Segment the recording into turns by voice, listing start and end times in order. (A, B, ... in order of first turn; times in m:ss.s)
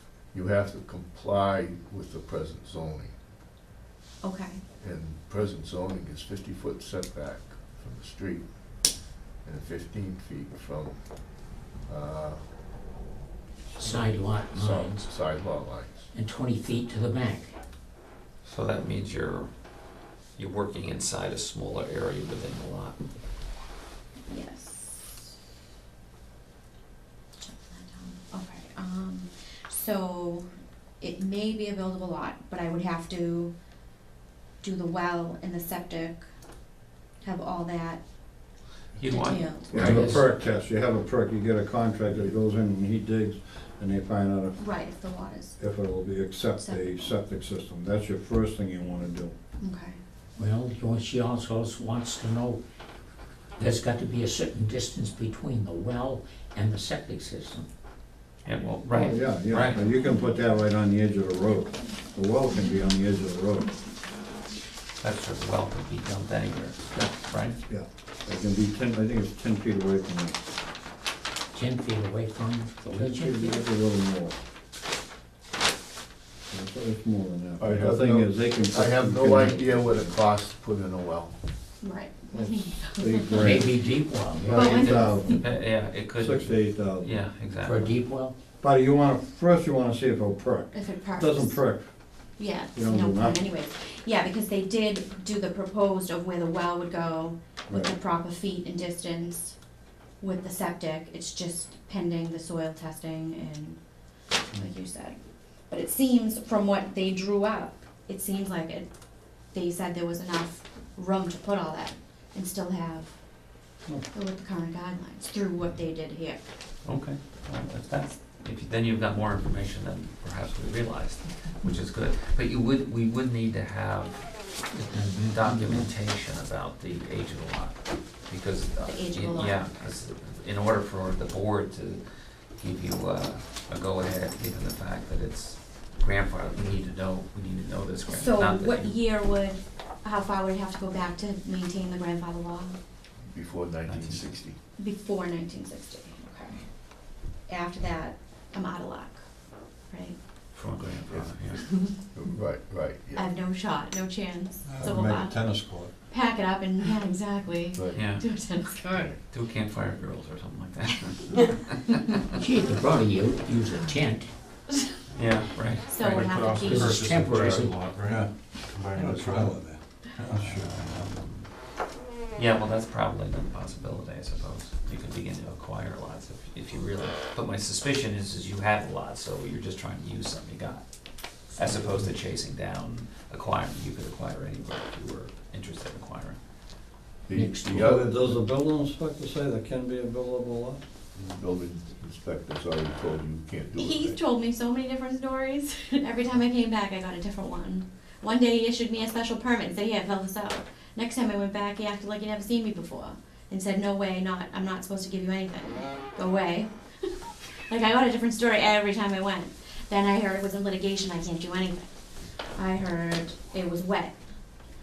0:00.3-0:03.1 A
0:04.2-0:04.6 B
0:04.8-0:08.4 A
0:09.4-0:11.1 A
0:11.8-0:12.4 A
0:13.8-0:15.1 C
0:14.5-0:16.1 A
0:16.1-0:17.6 C
0:18.4-0:19.5 D
0:20.4-0:23.0 D
0:24.3-0:25.3 B
0:27.4-0:30.5 B
0:31.0-0:33.5 B
0:34.6-0:36.3 B
0:37.2-0:38.0 B
0:39.0-0:40.2 D
0:39.0-0:39.8 B
0:39.7-0:44.6 E
0:39.7-0:40.2 C
0:44.6-0:45.6 B
0:45.6-0:49.3 E
0:46.6-0:47.1 B
0:49.6-0:50.0 B
0:50.4-0:52.6 C
0:53.6-0:57.7 C
0:58.4-0:59.8 D
0:58.9-1:03.7 E
1:05.0-1:07.6 D
1:07.7-1:10.4 E
1:11.5-1:13.6 C
1:12.8-1:14.4 E
1:16.5-1:20.1 E
1:17.6-1:21.3 A
1:21.8-1:23.6 B
1:22.3-1:23.7 E
1:23.4-1:24.6 C
1:24.4-1:25.4 E
1:24.4-1:27.9 D
1:24.5-1:25.2 B
1:26.1-1:27.1 E
1:27.6-1:28.3 C
1:28.6-1:31.9 E
1:30.7-1:31.6 B
1:32.4-1:39.6 B
1:32.7-1:33.4 E
1:37.7-1:37.9 E
1:40.2-1:43.8 B
1:44.5-1:45.2 B
1:45.7-1:48.9 B
1:49.5-1:53.2 B
1:54.1-1:56.4 B
1:56.8-2:19.0 D
2:04.7-2:05.9 C
2:08.8-2:09.7 B
2:18.1-2:22.8 B
2:23.3-2:24.6 A
2:23.8-2:24.3 D
2:24.8-2:26.7 B
2:27.4-2:29.3 B
2:29.9-2:30.2 B
2:30.5-2:31.7 D
2:31.1-2:33.3 A
2:33.1-2:35.3 B
2:34.6-2:35.9 E
2:36.1-2:39.1 B
2:37.7-2:38.0 A
2:37.9-2:38.2 D
2:38.9-2:42.2 D
2:38.9-2:39.2 A
2:42.4-2:44.3 C
2:45.1-2:46.0 D
2:45.9-2:46.9 B
2:46.0-2:49.6 F
2:46.5-2:47.8 C
2:48.0-2:48.3 E
2:48.9-2:51.0 E
2:50.3-2:51.6 D
2:52.3-3:06.4 D
3:07.3-3:08.4 A
3:07.3-3:07.9 C
3:07.8-3:10.8 E
3:11.1-3:14.2 A
3:13.8-3:27.1 B
3:27.7-3:31.9 B
3:32.5-3:34.2 B